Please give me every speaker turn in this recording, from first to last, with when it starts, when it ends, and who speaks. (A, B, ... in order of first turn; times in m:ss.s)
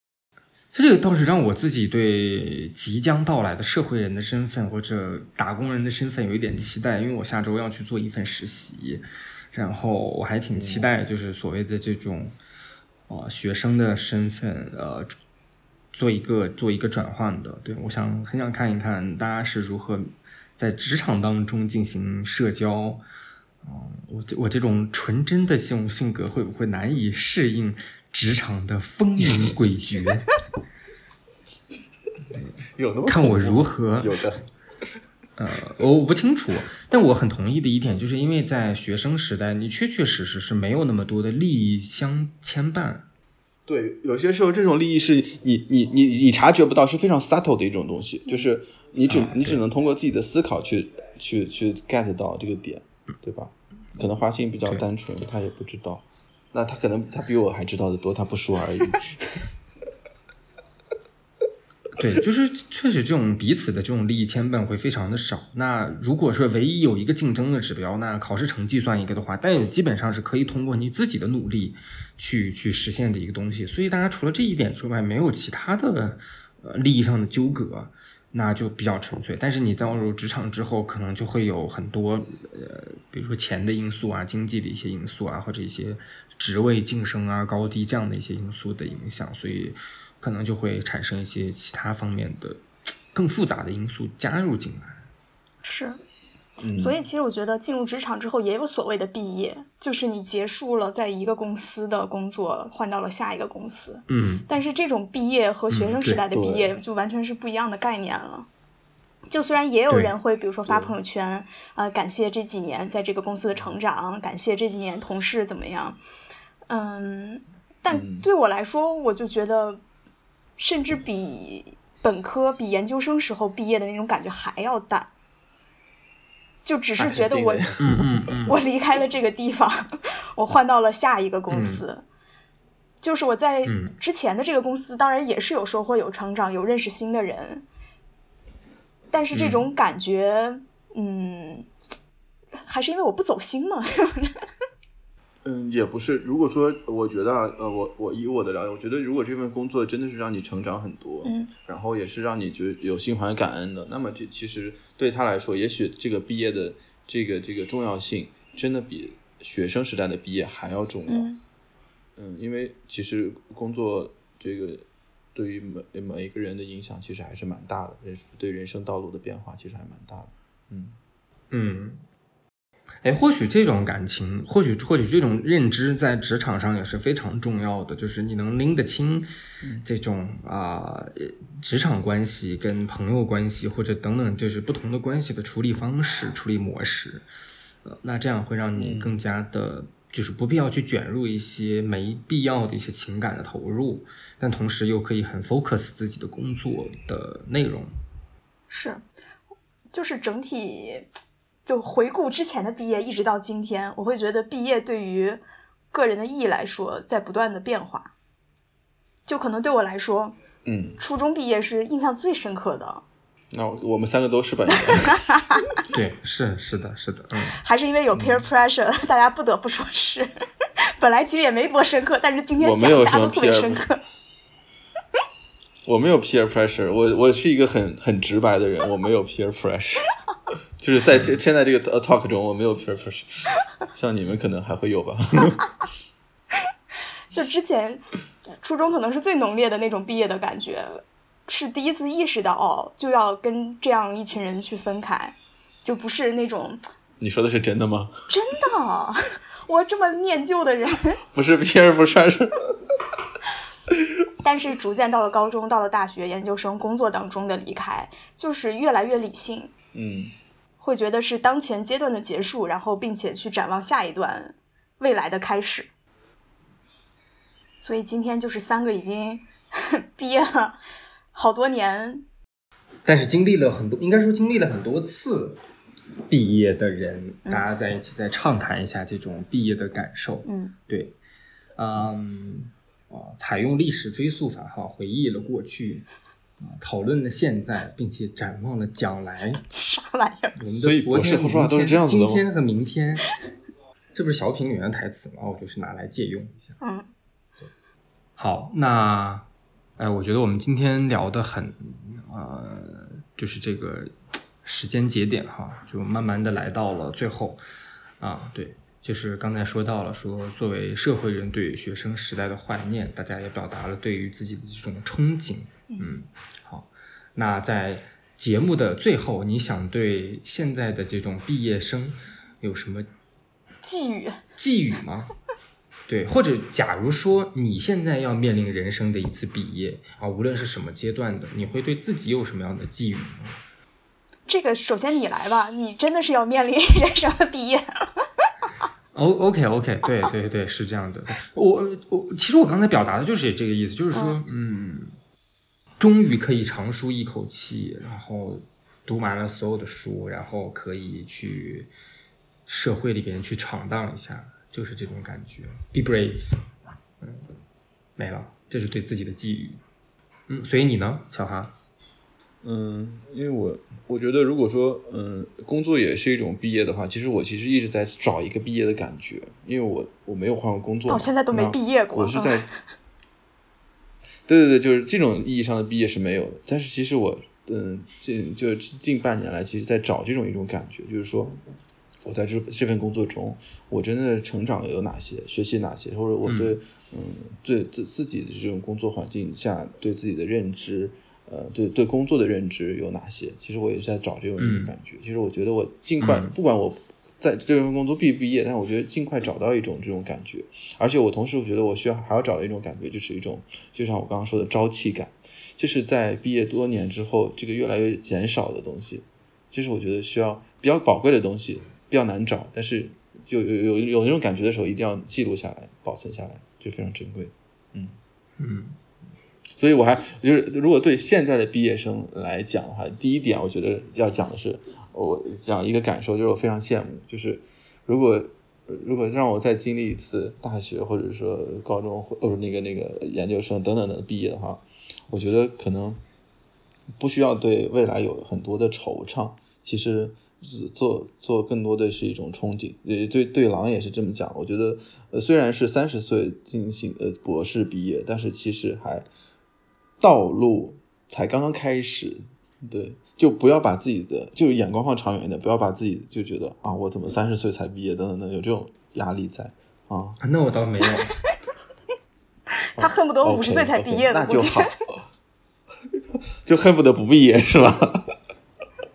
0:00.7-0:12.4 A
0:10.5-0:10.9 B
0:13.1-0:15.2 A
0:15.9-0:23.0 A
0:23.6-0:30.3 A
0:32.8-0:34.4 B
0:33.1-0:34.2 A
0:35.4-0:43.1 A
0:43.7-0:59.5 B
0:49.1-0:49.6 A
1:02.0-1:35.1 A
1:35.6-1:36.0 C
1:36.6-1:37.0 B
1:36.8-1:48.5 C
1:44.1-1:44.5 A
1:45.7-1:46.2 A
1:46.3-1:46.7 B
1:49.3-1:56.0 C
1:50.7-1:51.0 B
1:56.7-1:59.8 C
1:57.9-1:58.3 B
2:00.6-2:05.1 C
2:06.6-2:07.7 C
2:07.0-2:08.3 B
2:07.8-2:08.6 A
2:08.5-2:12.1 C
2:11.5-2:11.8 A
2:13.0-2:17.6 C
2:13.6-2:13.9 A
2:19.1-2:21.7 C
2:19.3-2:19.7 A
2:22.6-2:24.4 C
2:25.4-2:41.3 B
2:31.2-2:31.5 C
2:41.1-2:41.4 C
2:42.2-2:51.0 B
2:51.5-2:52.0 A
2:53.0-2:59.3 A
2:59.8-3:07.3 A
3:07.8-3:18.0 A
3:08.8-3:09.2 B
3:18.7-3:19.0 C
3:19.9-3:21.1 C
3:21.7-3:28.1 C
3:29.3-3:30.4 C
3:30.6-3:31.0 B
3:31.0-3:33.0 C
3:33.5-3:35.2 B
3:35.0-3:35.8 C
3:35.8-3:37.6 A
3:37.5-3:40.3 C
3:41.0-3:44.0 C
3:42.6-3:43.8 B
3:45.8-3:50.1 B
3:50.8-3:55.7 B
3:57.3-3:58.0 C
3:58.6-4:06.8 C
4:07.2-4:08.3 B
4:08.3-4:11.2 C
4:11.3-4:12.9 B
4:14.4-4:19.7 C
4:19.9-4:20.3 B
4:20.8-4:25.9 C
4:27.8-4:30.8 C
4:31.3-4:32.2 C
4:33.0-4:35.6 A
4:36.3-4:41.2 A
4:40.5-4:40.8 C
4:41.8-4:46.1 A
4:46.6-4:49.6 A
4:49.7-4:50.6 C
4:50.6-4:53.3 A
4:50.7-4:52.4 B
4:54.1-4:56.8 A
4:56.8-4:57.1 C
4:58.4-4:59.5 A
5:00.0-5:07.6 A
5:08.2-5:23.1 A
5:23.8-5:24.4 C
5:24.6-5:25.3 A
5:26.1-5:33.6 A
5:34.5-5:38.2 C
5:39.1-5:45.2 A
5:44.1-5:44.4 C
5:46.0-5:51.9 A
5:52.7-5:56.6 A
5:57.2-5:57.5 A
5:58.2-5:59.8 A
6:00.5-6:01.8 A
6:02.6-6:12.7 B
6:11.1-6:12.6 C
6:14.5-6:21.6 B
6:22.2-6:58.2 B
6:26.5-6:26.8 A
6:34.6-6:34.9 A
6:36.2-6:36.5 A
6:58.6-6:59.0 A
6:59.7-7:16.2 B
7:17.2-7:29.3 B
7:30.2-7:40.4 B
7:40.4-7:41.4 A
7:43.0-7:44.9 C
7:43.0-7:45.2 B
7:46.6-7:48.3 B